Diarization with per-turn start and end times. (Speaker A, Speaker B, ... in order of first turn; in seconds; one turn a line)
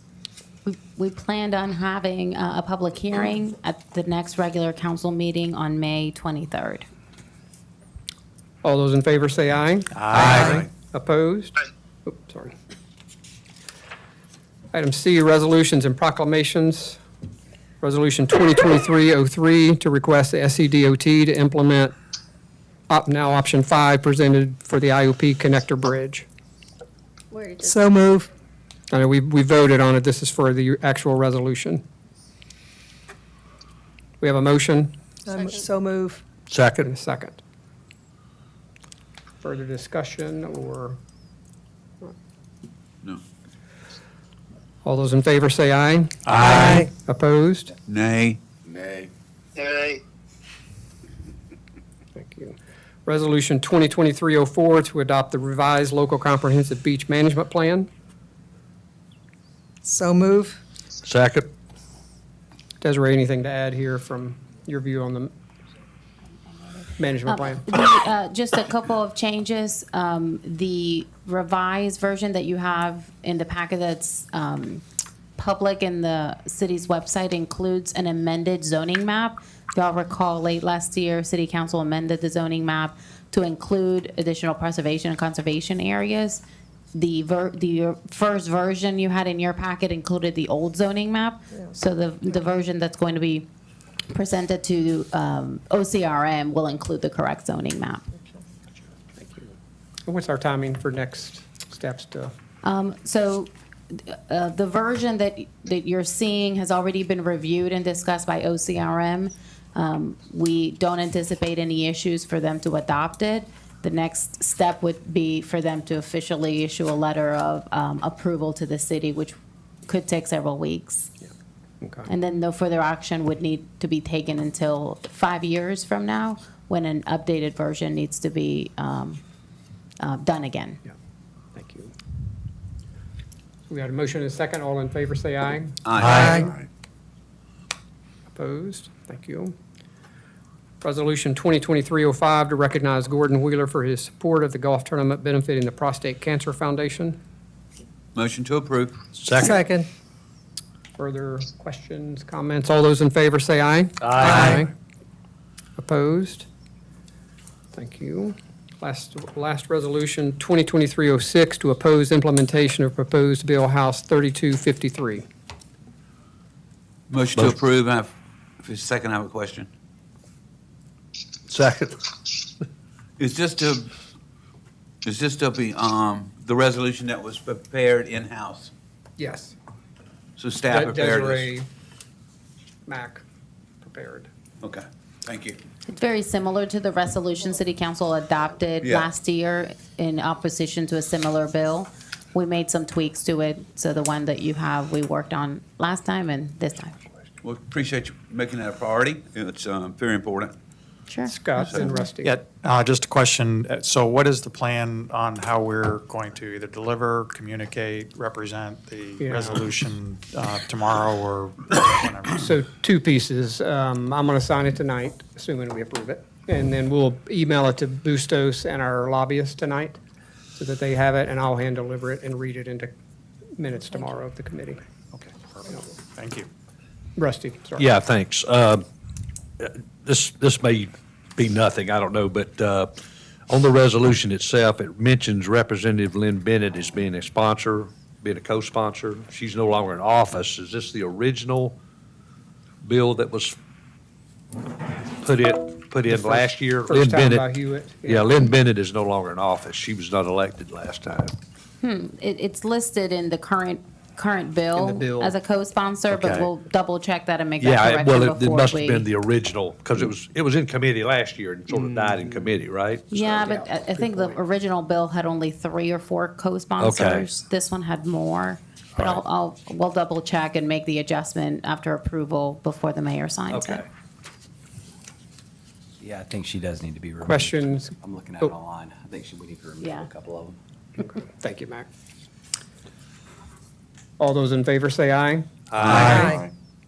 Speaker A: 0.7-6.9
Speaker B: 8.6-11.6
Speaker C: 9.9-10.7
Speaker D: 10.1-10.7
Speaker B: 12.1-12.6
Speaker B: 14.7-17.0
Speaker B: 17.8-21.9
Speaker B: 22.9-26.3
Speaker E: 27.6-28.3
Speaker B: 28.9-31.8
Speaker B: 34.2-34.9
Speaker E: 35.3-36.2
Speaker D: 36.5-36.9
Speaker B: 36.9-37.4
Speaker B: 39.4-41.0
Speaker B: 44.8-47.7
Speaker D: 46.3-46.8
Speaker E: 46.4-46.9
Speaker F: 47.9-48.4
Speaker B: 52.1-57.9
Speaker E: 59.9-60.6
Speaker D: 61.0-61.5
Speaker B: 62.8-65.3
Speaker A: 66.5-74.8
Speaker B: 67.0-67.7
Speaker A: 75.4-86.4
Speaker A: 86.9-93.5
Speaker A: 94.1-98.1
Speaker B: 99.2-99.5
Speaker B: 100.1-102.3
Speaker A: 102.6-119.4
Speaker A: 119.9-121.1
Speaker B: 121.8-122.1
Speaker A: 122.1-129.2
Speaker A: 130.0-130.8
Speaker B: 131.6-131.9
Speaker B: 133.7-136.3
Speaker F: 135.8-136.4
Speaker D: 136.0-136.4
Speaker E: 136.0-136.5
Speaker B: 138.3-139.6
Speaker B: 140.8-147.2
Speaker F: 148.2-149.0
Speaker D: 149.2-149.6
Speaker E: 149.4-149.9
Speaker B: 151.0-154.7
Speaker D: 154.0-154.6
Speaker E: 154.2-154.6
Speaker B: 155.8-156.5
Speaker B: 157.7-165.3
Speaker F: 167.1-169.7
Speaker D: 171.5-172.1
Speaker F: 173.2-173.9
Speaker F: 175.1-178.7
Speaker B: 179.2-179.6
Speaker F: 180.4-181.5
Speaker B: 180.7-181.7
Speaker B: 182.9-183.2
Speaker B: 183.8-184.3
Speaker F: 184.6-185.6
Speaker A: 185.9-197.0
Speaker F: 188.8-189.1
Speaker F: 197.4-200.6
Speaker A: 201.1-201.8
Speaker B: 201.3-202.4
Speaker F: 201.6-202.0
Speaker C: 202.2-212.4
Speaker B: 209.2-209.7
Speaker B: 212.3-220.0
Speaker B: 220.6-222.9
Speaker B: 223.6-224.8
Speaker C: 225.1-226.5
Speaker B: 227.2-227.9
Speaker D: 227.8-228.9
Speaker D: 229.6-232.9
Speaker D: 233.5-241.8
Speaker D: 242.8-243.6
Speaker D: 245.2-247.5
Speaker B: 246.1-248.4
Speaker D: 248.1-251.3
Speaker A: 251.8-259.1
Speaker B: 254.8-255.3
Speaker D: 256.1-256.5
Speaker D: 257.6-263.1
Speaker B: 261.8-262.2
Speaker A: 263.1-273.9
Speaker B: 263.1-264.4
Speaker D: 266.8-267.3
Speaker D: 273.5-273.9
Speaker G: 276.0-280.6
Speaker B: 277.2-278.5
Speaker A: 279.8-280.1
Speaker B: 281.0-281.9
Speaker B: 284.2-285.5
Speaker D: 285.7-286.4
Speaker F: 285.8-286.3
Speaker E: 286.1-286.4